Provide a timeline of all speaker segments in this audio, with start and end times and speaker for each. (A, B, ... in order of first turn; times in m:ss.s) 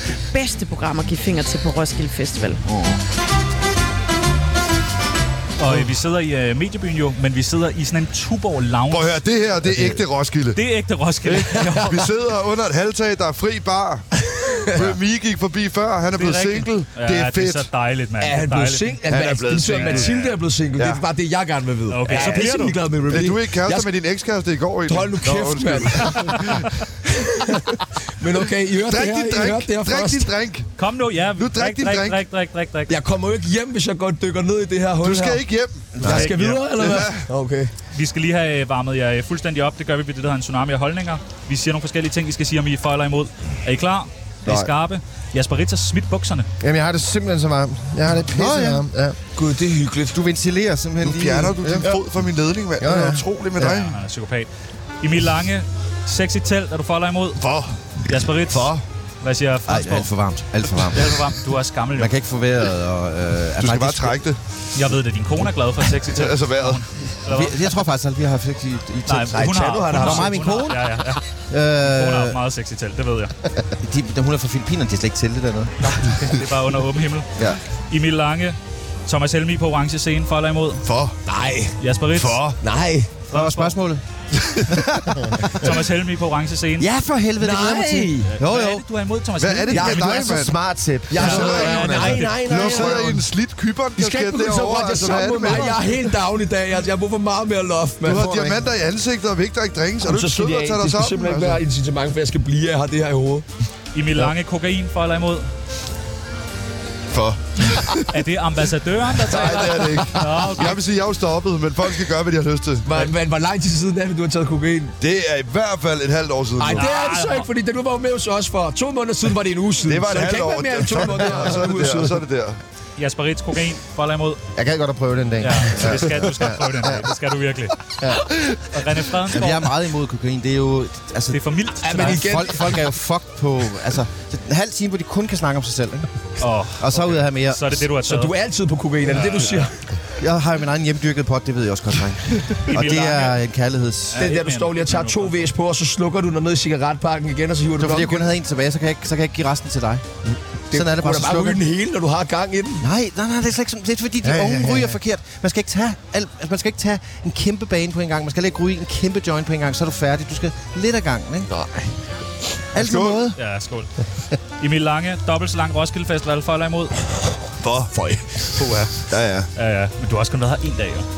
0:00.3-0:02.6 A
0:02.6-0:03.0 B
0:05.6-0:09.2 C
0:08.9-0:10.6 D
0:10.5-0:12.0 C
0:11.2-0:14.0 D
0:14.4-0:14.9 E
0:14.6-0:17.7 D
0:16.1-0:19.0 C
0:18.2-0:23.9 E
0:19.1-0:21.0 D
0:19.7-0:20.1 C
0:21.9-0:22.8 C
0:22.1-0:26.7 D
0:24.9-0:30.3 E
0:26.2-0:26.7 C
0:28.9-0:30.7 D
0:30.8-0:32.9 C
0:31.4-0:32.2 D
0:32.9-0:35.4 E
0:35.0-0:36.1 D
0:36.0-0:36.3 B
0:36.0-0:37.7 E
0:36.0-0:37.0 C
0:36.7-0:37.3 D
0:37.9-0:46.5 C
0:44.4-0:44.7 D
0:46.6-0:49.2 F
0:48.3-0:48.8 B
0:49.4-0:50.2 E
0:50.1-0:51.9 B
0:51.0-0:54.0 D
0:52.8-0:53.8 F
0:53.6-0:54.5 C
0:55.0-0:57.4 C
0:57.4-0:57.8 D
0:58.1-1:00.1 C
0:58.5-0:58.8 D
0:59.7-1:01.2 B
1:00.8-1:02.1 C
1:02.0-1:04.2 B
1:03.6-1:04.4 D
1:04.7-1:07.6 C
1:06.1-1:06.8 D
1:07.3-1:12.4 B
1:09.1-1:11.2 C
1:09.3-1:10.3 E
1:11.8-1:13.3 C
1:13.8-1:15.7 B
1:15.8-1:17.3 C
1:17.9-1:20.8 C
1:20.8-1:21.2 D
1:21.3-1:21.8 E
1:21.8-1:22.5 C
1:22.1-1:22.6 D
1:22.6-1:23.1 E
1:23.3-1:23.8 C
1:23.3-1:24.0 B
1:24.4-1:24.8 D
1:24.5-1:25.8 B
1:25.4-1:26.9 C
1:26.8-1:28.8 B
1:27.4-1:28.3 E
1:28.3-1:30.5 C
1:29.4-1:30.6 D
1:29.7-1:30.1 E
1:29.9-1:33.0 F
1:31.1-1:33.2 E
1:31.2-1:33.0 C
1:31.2-1:36.0 D
1:34.0-1:38.2 E
1:35.1-1:35.7 F
1:38.0-1:41.6 D
1:38.1-1:38.7 F
1:40.0-1:43.4 E
1:43.9-1:45.5 C
1:47.1-1:48.2 D
1:48.1-1:50.8 C
1:49.2-1:52.9 D
1:52.8-1:54.9 E
1:55.0-1:56.9 D
1:56.6-2:02.2 E
1:56.7-1:57.5 C
1:59.8-2:02.6 D
2:03.0-2:04.4 C
2:04.6-2:07.0 F
2:05.4-2:07.8 C
2:08.0-2:08.4 F
2:08.7-2:09.7 C
2:09.3-2:11.4 B
2:11.3-2:12.3 C
2:11.8-2:12.9 E
2:11.9-2:16.1 B
2:16.4-2:18.3 C
2:16.8-2:17.8 B
2:18.0-2:19.8 E
2:19.1-2:19.7 C
2:20.2-2:24.3 B
2:22.6-2:23.4 C
2:24.1-2:25.5 C
2:24.2-2:28.3 E
2:27.8-2:30.0 B
2:30.3-2:32.9 E
2:30.7-2:31.6 B
2:32.8-2:41.5 B
2:34.2-2:34.9 F
2:41.5-2:41.9 E
2:42.7-2:43.4 B
2:42.7-2:43.3 D
2:43.4-2:43.9 C
2:44.6-2:46.9 C
2:47.6-2:47.9 D
2:47.9-2:48.4 E
2:48.5-2:49.0 C
2:49.1-2:49.5 D
2:49.5-2:51.0 C